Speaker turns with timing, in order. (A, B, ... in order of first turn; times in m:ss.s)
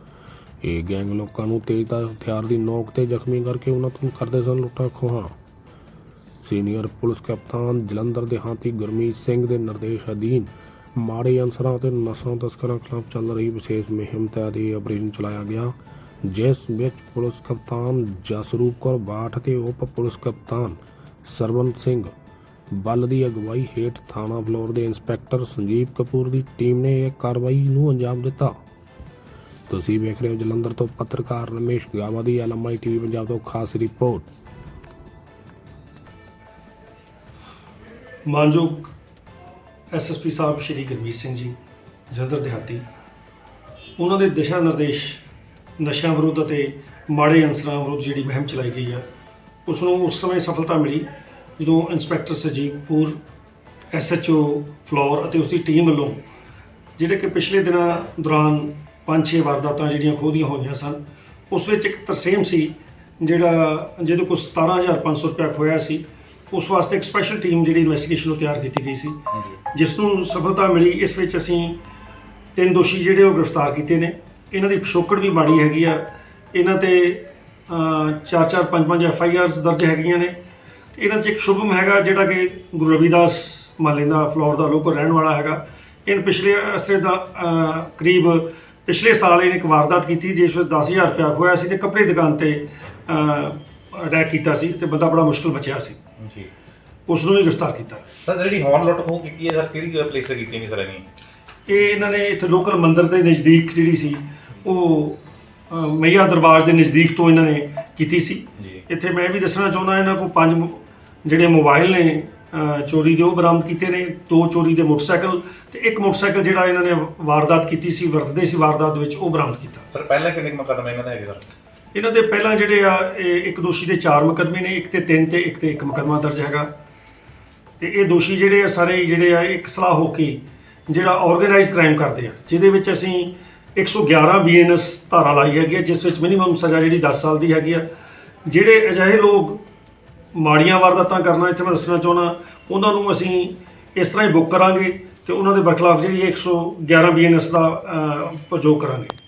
0:00.6-0:05.3 A
0:06.4-0:22.1 A
0:22.7-0:28.6 A
0:29.7-0:34.3 A
0:38.3-0:38.9 B
0:39.9-0:41.6 B
0:42.1-0:42.8 B
0:44.0-0:45.2 B
0:45.8-0:49.1 B
0:49.7-0:53.2 B
0:53.9-0:56.2 B
0:57.0-1:09.2 B
1:09.3-1:09.6 C
1:09.7-1:11.8 B
1:12.6-1:20.4 B
1:20.9-1:36.0 B
1:36.2-1:36.5 C
1:37.1-1:38.0 B
1:38.2-1:41.0 C
1:41.7-1:59.9 B
1:48.6-1:48.8 C
1:59.9-2:01.4 C
2:01.9-2:06.7 B
2:07.8-2:17.9 B
2:18.4-2:19.6 B
2:20.3-2:29.1 B